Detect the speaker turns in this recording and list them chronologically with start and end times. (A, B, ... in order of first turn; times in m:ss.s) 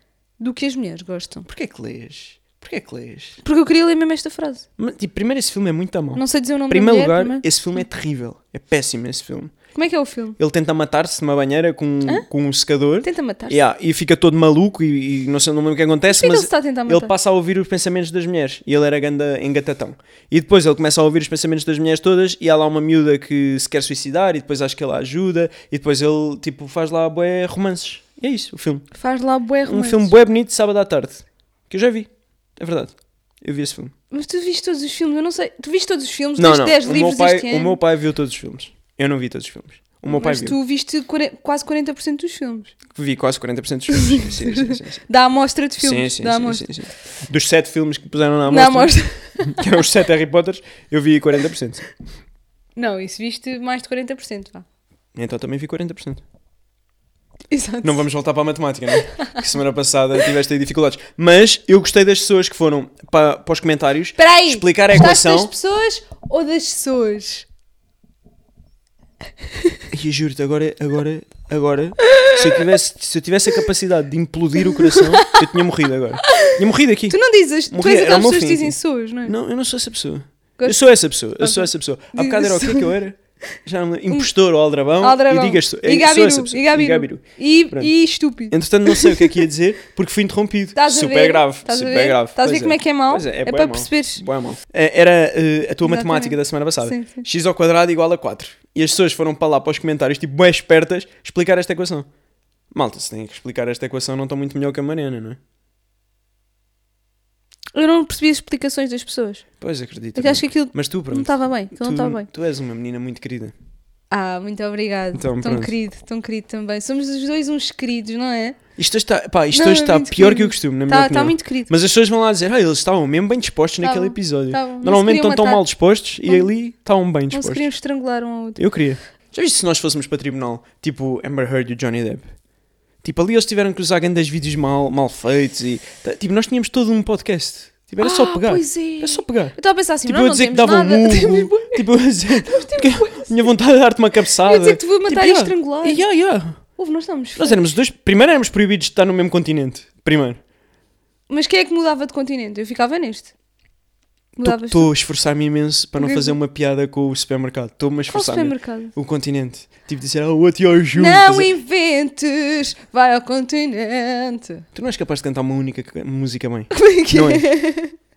0:00.4-0:01.5 A
0:01.5-0:03.4 B
0:03.4-0:04.6 A
0:04.8-0:09.5 B
0:06.2-0:07.4 A
0:09.8-0:10.4 A
0:10.4-0:28.9 B
0:13.0-0:13.6 A
0:16.1-0:17.1 A
0:28.9-0:30.2 A
0:29.6-0:33.9 B
0:34.1-0:37.8 A
0:36.4-0:40.6 B
0:40.1-0:42.8 A
0:42.9-0:45.0 B
0:43.9-0:46.7 A
0:45.8-0:51.9 B
0:48.5-0:49.7 A
0:52.8-0:54.6 A
0:55.2-0:56.2 B
0:57.5-0:58.0 A
0:57.8-1:05.5 B
1:04.2-1:07.5 A
1:09.9-1:17.2 B
1:12.1-1:12.6 A
1:14.7-1:15.6 A
1:16.2-1:16.6 A
1:17.1-1:19.3 A
1:17.7-1:27.9 B
1:20.6-1:23.0 A
1:25.0-1:29.4 A
1:28.5-1:42.1 B
1:30.8-1:34.2 A
1:35.8-1:37.2 A
1:42.7-1:45.4 B
1:47.7-1:49.4 A
1:49.6-1:53.5 B
1:50.2-1:52.3 A
1:54.1-1:58.6 A
1:55.1-1:55.7 B
1:58.8-2:07.7 B
1:59.5-2:01.7 A
2:03.8-2:05.6 A
2:07.3-2:08.6 A
2:08.6-2:12.3 B
2:13.0-2:19.6 B
2:18.0-2:23.5 A
2:20.1-2:26.6 B
2:24.4-2:26.0 A
2:26.8-2:27.7 A
2:27.4-2:30.4 B
2:31.3-2:33.3 A
2:34.4-2:41.5 B
2:34.4-2:34.9 A
2:36.0-2:36.4 A
2:38.1-2:38.9 A
2:40.9-2:44.7 A
2:44.7-2:47.6 B
2:46.7-2:47.9 A